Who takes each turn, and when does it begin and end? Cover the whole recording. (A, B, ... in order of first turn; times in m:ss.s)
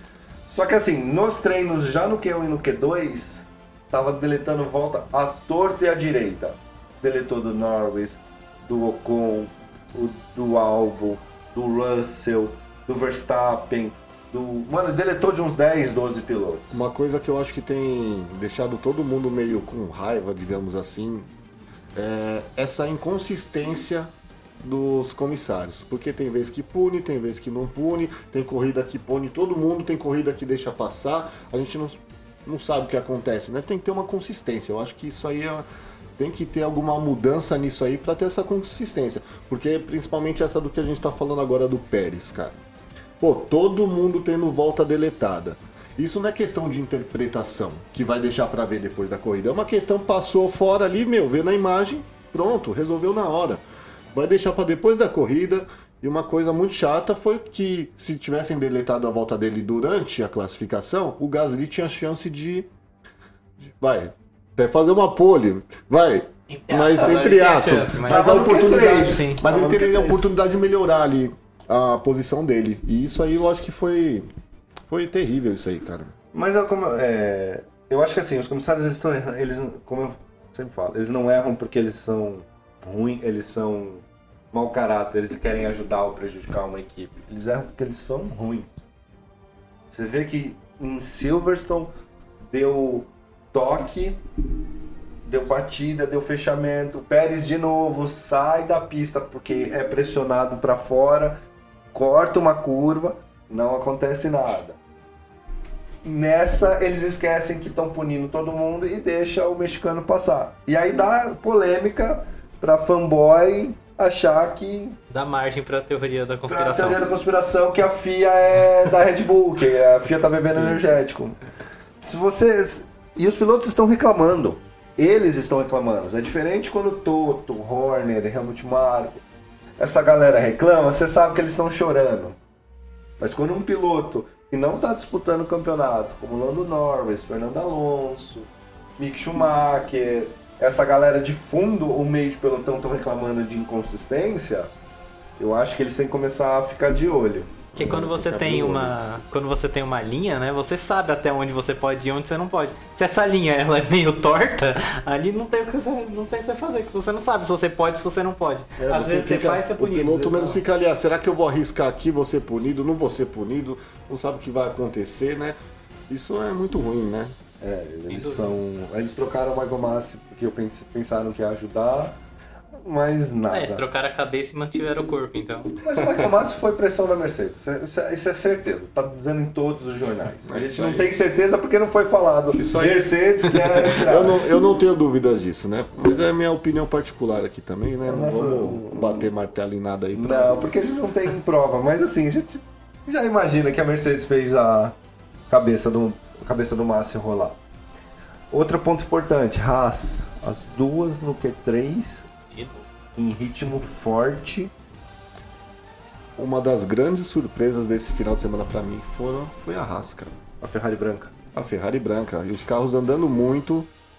0:00.5-0:16.8 A
0:16.7-0:21.3 B
0:22.0-0:24.1 B
0:24.6-0:35.6 B
0:36.2-0:42.6 B
0:43.2-1:02.7 B
1:03.8-1:14.3 B
1:06.5-1:09.4 C
1:08.0-1:10.3 A
1:14.9-1:16.1 B
1:16.3-1:28.8 A
1:29.9-1:31.9 A
1:32.5-1:34.2 A
1:35.3-1:41.4 A
1:41.9-1:44.8 A
1:46.0-1:55.0 A
1:55.1-1:57.0 C
1:56.5-2:01.4 A
2:00.5-2:00.9 B
2:02.0-2:09.2 A
2:09.8-2:12.4 A
2:13.2-2:24.7 A
2:25.4-2:27.5 A
2:27.8-2:29.0 B
2:27.8-2:40.5 C
2:38.8-2:45.6 B
2:46.1-2:47.4 B
2:47.6-2:52.2 A
2:48.1-2:48.6 C
2:52.8-2:53.8 A
2:53.5-2:55.8 C
2:55.8-3:04.4 A
3:00.4-3:01.1 B
3:02.6-3:03.0 B
3:04.0-3:10.7 B
3:08.1-3:09.3 A
3:10.1-3:14.9 A
3:15.5-3:17.6 A
3:18.5-3:22.3 A
3:22.5-3:22.8 C
3:23.2-3:24.7 A
3:26.4-3:30.3 B
3:30.6-3:31.3 A
3:31.5-3:33.9 B